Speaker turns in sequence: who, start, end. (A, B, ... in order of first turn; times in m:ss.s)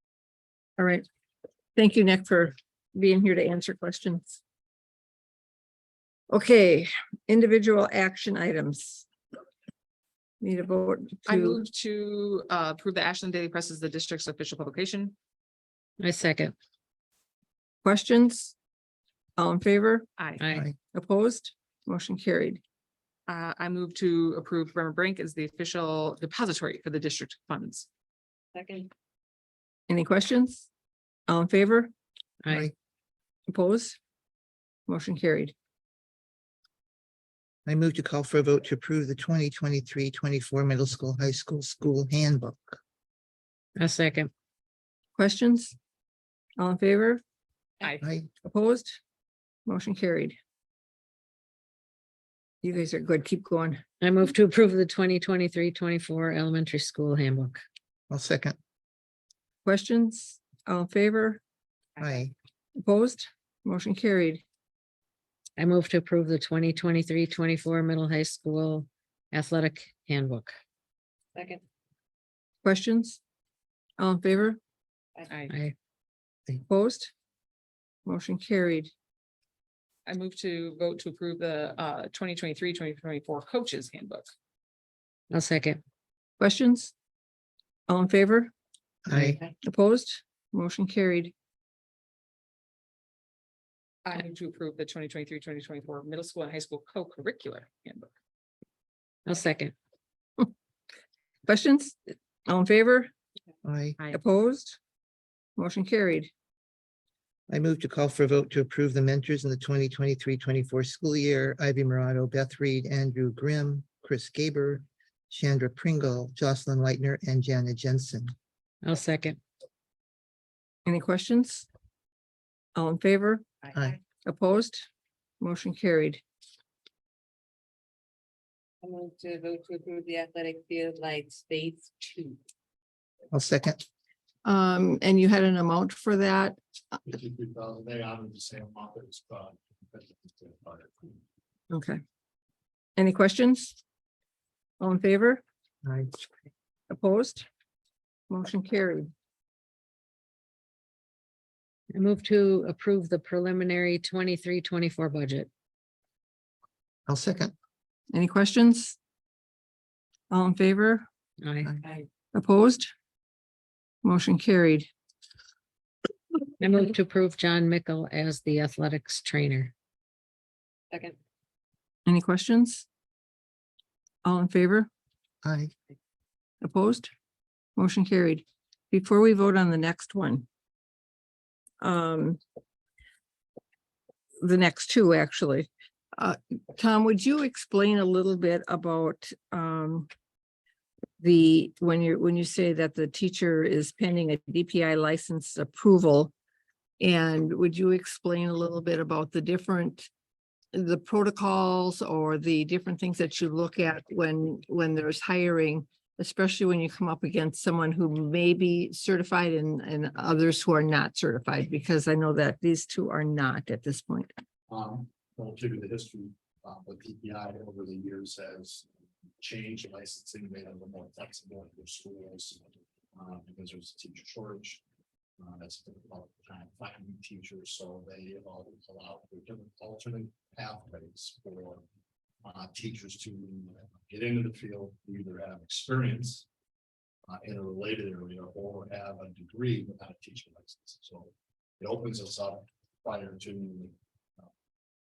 0:00.8-0:01.0 A
0:01.8-0:04.4 A
0:06.3-0:09.1 A
0:10.4-0:11.6 A
0:11.2-0:15.1 B
0:16.0-0:16.5 C
0:17.8-0:18.5 A
0:19.4-0:20.1 A
0:20.2-0:20.4 B
0:20.4-0:20.7 C
0:20.9-0:22.6 A
0:23.3-0:27.9 B
0:28.5-0:28.9 D
0:29.9-0:30.7 A
0:31.3-0:31.9 A
0:32.4-0:32.7 C
0:32.5-0:32.7 E
0:33.5-0:34.0 A
0:34.9-0:35.5 A
0:37.6-0:42.8 E
0:43.8-0:44.3 C
0:45.2-0:45.8 A
0:46.6-0:47.2 A
0:48.0-0:48.3 E
0:48.4-0:49.0 A
0:49.6-0:50.4 A
0:52.6-0:53.8 A
0:54.0-0:57.6 C
0:58.1-0:58.6 E
0:59.6-1:01.4 A
1:02.0-1:02.3 E
1:02.8-1:04.4 A
1:05.6-1:10.5 C
1:11.3-1:11.6 D
1:12.6-1:13.2 A
1:14.0-1:14.6 A
1:15.5-1:15.7 C
1:16.6-1:17.1 A
1:18.0-1:18.9 A
1:20.0-1:24.3 B
1:25.3-1:25.8 C
1:26.4-1:26.9 A
1:27.9-1:28.5 A
1:29.1-1:29.4 E
1:29.6-1:31.3 A
1:34.0-1:38.1 B
1:39.2-1:39.7 C
1:41.4-1:43.1 A
1:43.6-1:44.0 E
1:44.1-1:44.8 A
1:45.6-1:46.3 A
1:47.5-1:58.3 E
1:58.8-1:59.4 C
2:00.8-2:01.7 A
2:02.7-2:03.4 A
2:03.6-2:04.0 D
2:04.2-2:04.8 A
2:05.4-2:06.2 A
2:08.8-2:12.4 D
2:13.3-2:13.8 E
2:14.4-2:17.0 A
2:17.0-2:21.2 F
2:21.7-2:22.0 A
2:23.0-2:23.8 A
2:24.8-2:25.4 A
2:25.8-2:26.2 E
2:26.9-2:27.5 A
2:28.3-2:29.1 A
2:31.9-2:35.5 C
2:37.1-2:37.5 E
2:38.1-2:39.0 A
2:40.3-2:41.0 A
2:41.4-2:41.7 C
2:42.3-2:42.9 A
2:44.0-2:44.9 A
2:46.6-2:49.7 C
2:50.9-2:51.2 D
2:52.0-2:52.8 A
2:54.2-2:54.9 A
2:55.4-2:55.7 E
2:56.6-2:57.1 A
2:57.8-3:00.4 A
3:01.8-3:02.4 A
3:04.4-3:10.1 A
3:11.2-3:16.3 A
3:17.0-3:20.1 A
3:20.7-3:34.3 A
3:34.7-3:38.9 F
3:39.4-3:44.8 F
3:45.4-3:51.8 F
3:52.4-3:56.5 F
3:57.3-4:04.5 F